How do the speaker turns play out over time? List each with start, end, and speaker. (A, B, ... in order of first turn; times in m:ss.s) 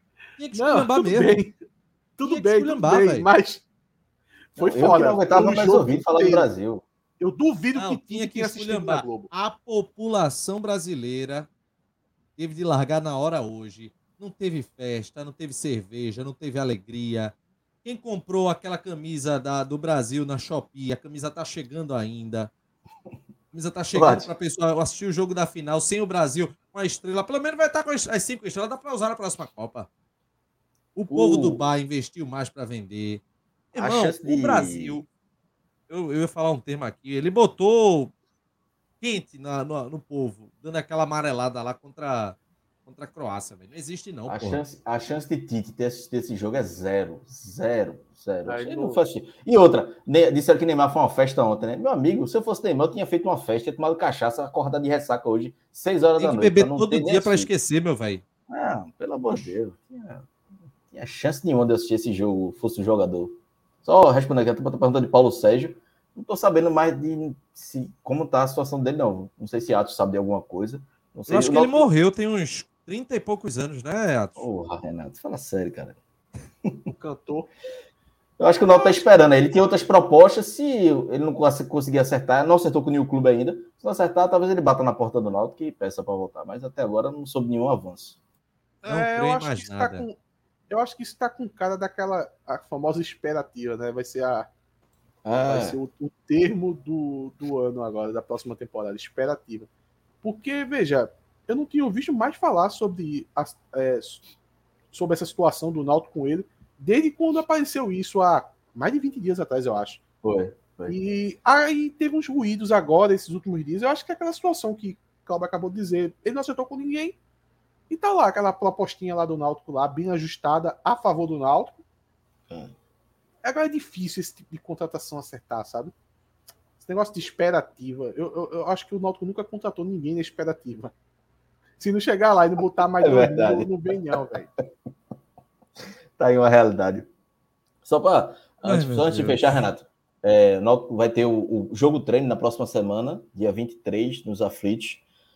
0:00.4-0:01.4 A
0:00.5-0:01.5 B
0:02.2-0:03.6 B
0:02.2-0:03.3 A
0:04.5-0:06.5 B
0:04.6-0:06.8 C
0:07.2-0:09.3 B
0:07.7-0:11.5 A
0:12.4-0:22.5 A
0:23.5-0:29.9 A
0:23.9-0:24.3 C
0:30.9-0:33.2 A
0:31.1-0:31.7 C
0:33.7-0:35.1 A
0:33.8-0:35.0 C
0:35.9-0:38.1 A
0:39.0-0:44.6 A
0:44.3-0:57.5 C
0:48.4-0:49.0 B
0:56.2-0:58.2 A
0:58.5-1:00.3 C
1:00.9-1:11.9 C
1:11.3-1:14.4 A
1:14.4-1:16.0 C
1:16.6-1:16.9 C
1:16.9-1:17.5 B
1:18.4-1:28.2 C
1:28.8-1:30.1 B
1:28.8-1:30.0 A
1:30.7-1:34.5 B
1:35.2-1:35.8 C
1:35.4-1:39.7 B
1:40.2-1:44.2 B
1:44.9-1:50.0 B
1:50.2-1:50.9 C
1:50.9-1:57.2 B
1:57.9-2:01.8 B
2:03.4-2:05.9 B
2:06.8-2:10.9 B
2:11.8-2:14.5 B
2:12.8-2:14.6 C
2:16.2-2:17.1 C
2:17.8-2:25.0 C
2:18.6-2:19.6 A